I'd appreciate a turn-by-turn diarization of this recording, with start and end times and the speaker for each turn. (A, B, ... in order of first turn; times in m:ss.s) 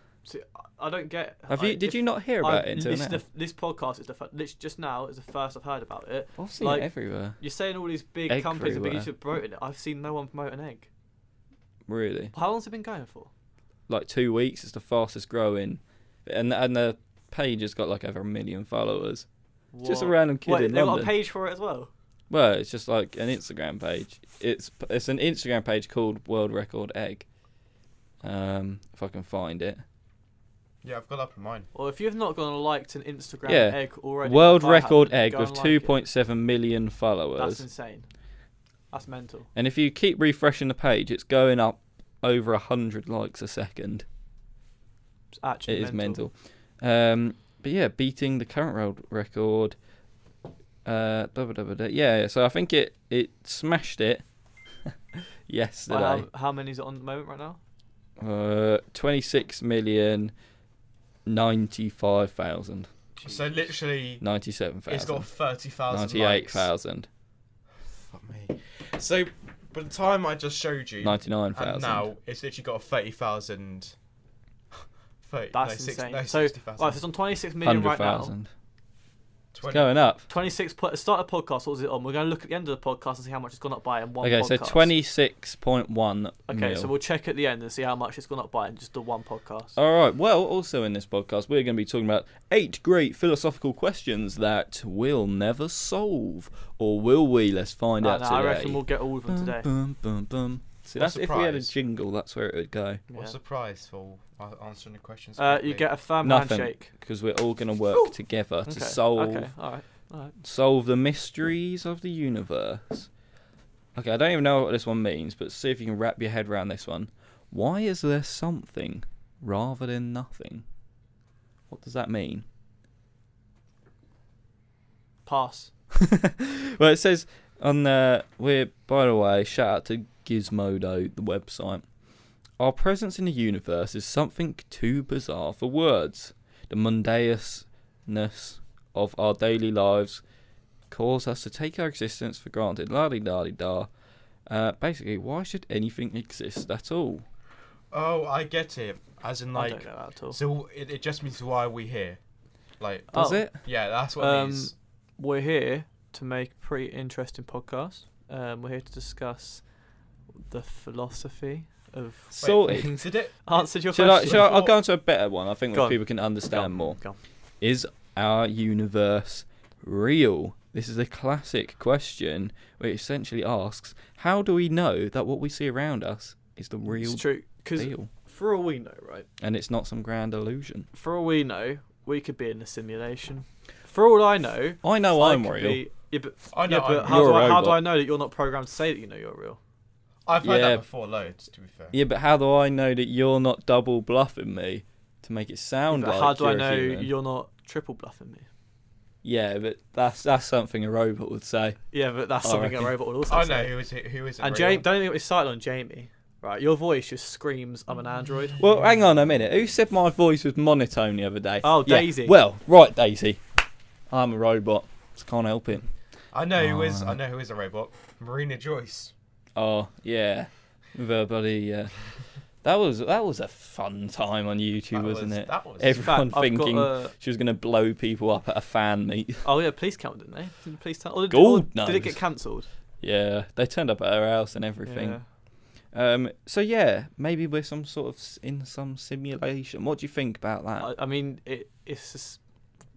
0:00.2-0:10.9 A
0:01.5-0:03.2 B
0:06.4-0:07.4 B
0:08.3-0:09.1 B
0:11.9-0:12.3 B
0:12.3-0:13.3 A
0:13.9-0:19.3 B
0:19.7-0:21.9 A
0:19.8-0:21.1 B
0:22.3-0:27.3 B
0:28.2-0:29.8 B
0:30.8-0:31.7 C
0:31.7-0:36.0 A
0:33.4-0:37.6 B
0:37.4-0:38.1 A
0:38.9-0:39.5 A
0:39.5-0:44.0 B
0:45.3-0:46.2 A
0:45.7-0:49.8 B
0:50.8-0:56.3 B
0:55.9-0:57.6 A
0:58.2-1:00.3 B
1:01.2-1:02.9 B
1:03.2-1:03.6 A
1:03.2-1:04.2 C
1:04.2-1:05.3 B
1:04.8-1:06.7 C
1:05.9-1:07.1 B
1:07.8-1:14.0 C
1:11.0-1:12.1 B
1:14.7-1:17.0 C
1:15.5-1:18.3 A
1:17.6-1:18.5 B
1:19.5-1:19.9 C
1:19.7-1:20.3 B
1:20.3-1:24.9 A
1:24.2-1:26.9 B
1:26.5-1:29.8 A
1:29.8-1:43.0 B
1:38.0-1:39.7 A
1:41.0-1:41.7 C
1:43.1-1:43.4 A
1:43.1-1:45.9 C
1:45.4-1:46.9 A
1:46.2-1:49.7 B
1:48.6-1:50.3 A
1:50.4-1:53.1 B
1:53.9-2:00.6 B
2:01.7-2:02.4 B
2:05.2-2:05.7 A
2:06.0-2:11.9 B
2:12.6-2:20.2 B
2:20.9-2:23.9 B
2:24.4-2:27.2 B
2:27.9-2:34.7 C
2:29.5-2:30.4 A
2:33.1-2:39.8 A
2:33.1-2:33.6 B
2:40.5-2:44.6 A
2:42.3-2:43.1 B
2:42.4-2:44.7 C
2:43.9-2:58.1 B
2:45.7-2:47.2 A
2:57.0-2:59.3 A
2:59.4-3:00.9 B
3:00.9-3:09.6 A
3:04.8-3:05.8 B
3:06.5-3:07.4 C
3:07.1-3:07.8 B
3:10.2-3:12.0 C
3:10.4-3:10.8 B
3:11.9-3:17.1 B
3:15.9-3:18.5 A
3:19.2-3:22.9 B
3:21.9-3:23.8 A
3:23.3-3:24.9 C
3:24.4-3:28.6 A
3:28.6-3:37.2 B
3:31.6-3:32.4 A
3:36.3-3:39.1 C
3:39.6-3:49.4 B
3:44.9-3:46.2 C
3:46.0-3:47.1 A
3:49.4-3:52.7 A
3:51.3-4:00.9 B
3:54.8-3:55.3 A
4:00.8-4:02.4 A